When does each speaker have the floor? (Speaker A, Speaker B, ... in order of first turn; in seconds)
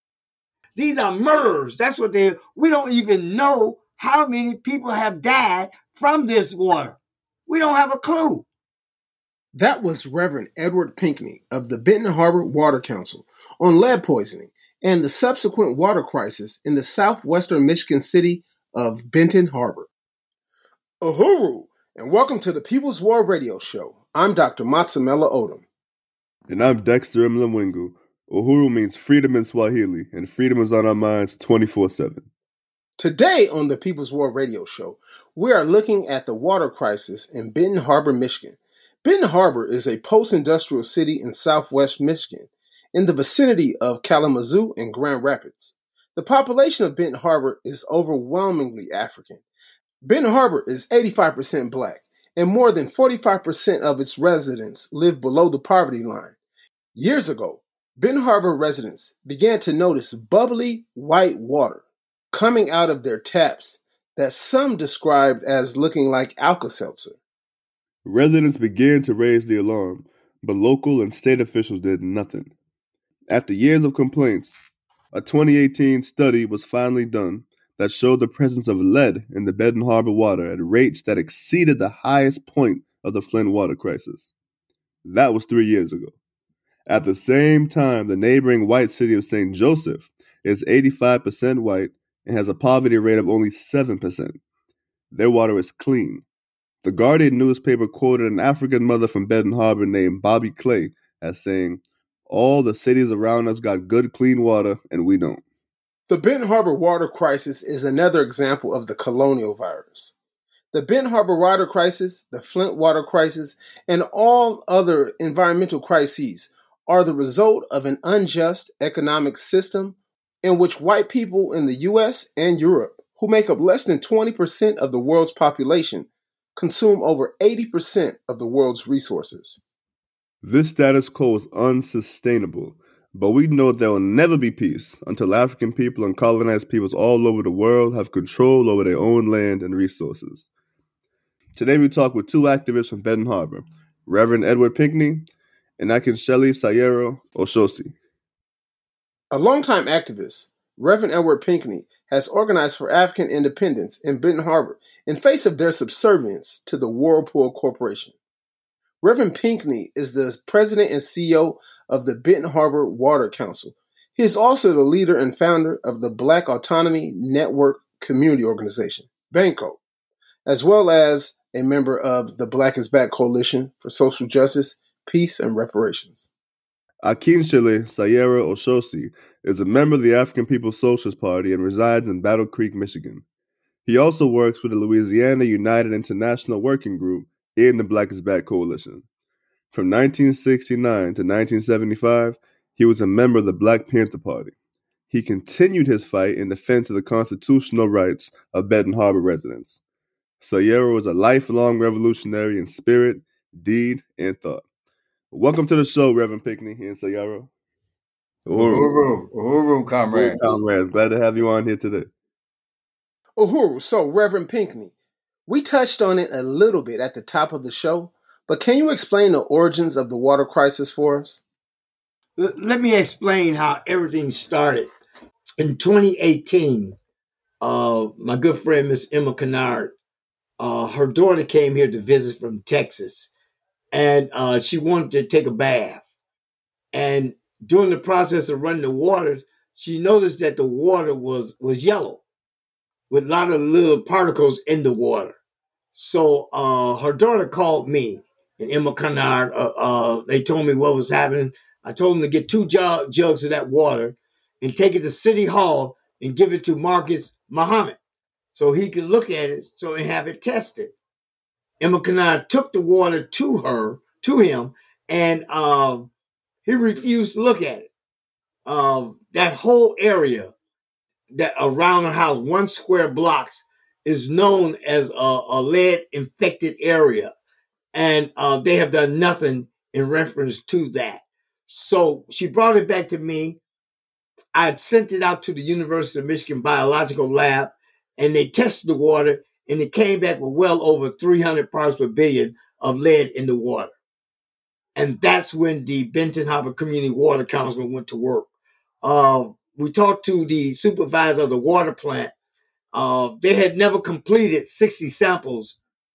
Speaker A: 0.8-8.5, 222.4-224.9, 225.6-227.0, 227.6-229.9, 230.6-233.3, 233.9-236.0, 236.9-242.2, 243.1-245.4, 245.9-258.0, 258.5-260.9, 261.8-266.1, 266.7-267.9, 268.7-270.5, 271.3-277.3, 277.9-283.6, 284.6-293.9, 295.0-298.5, 299.0-302.3, 302.9-305.8
Speaker B: 9.6-19.9, 21.0-25.6, 33.0-49.4, 50.0-56.4, 57.0-67.2, 106.1-110.1, 110.7-129.6, 149.3-158.1, 159.0-169.8, 170.5-176.3, 213.4-214.9, 215.5-221.4
Speaker C: 26.5-32.3, 68.0-72.5, 73.3-74.6, 75.1-84.3, 85.0-86.1, 86.9-94.4, 95.1-96.2, 96.8-105.4, 130.4-140.5, 141.6-145.3, 145.8-147.9, 177.0-183.2, 183.9-189.1, 189.7-194.5, 195.1-199.8, 200.4-204.6, 205.3-207.5, 208.5-209.0, 210.1-212.1
Speaker D: 208.5-210.6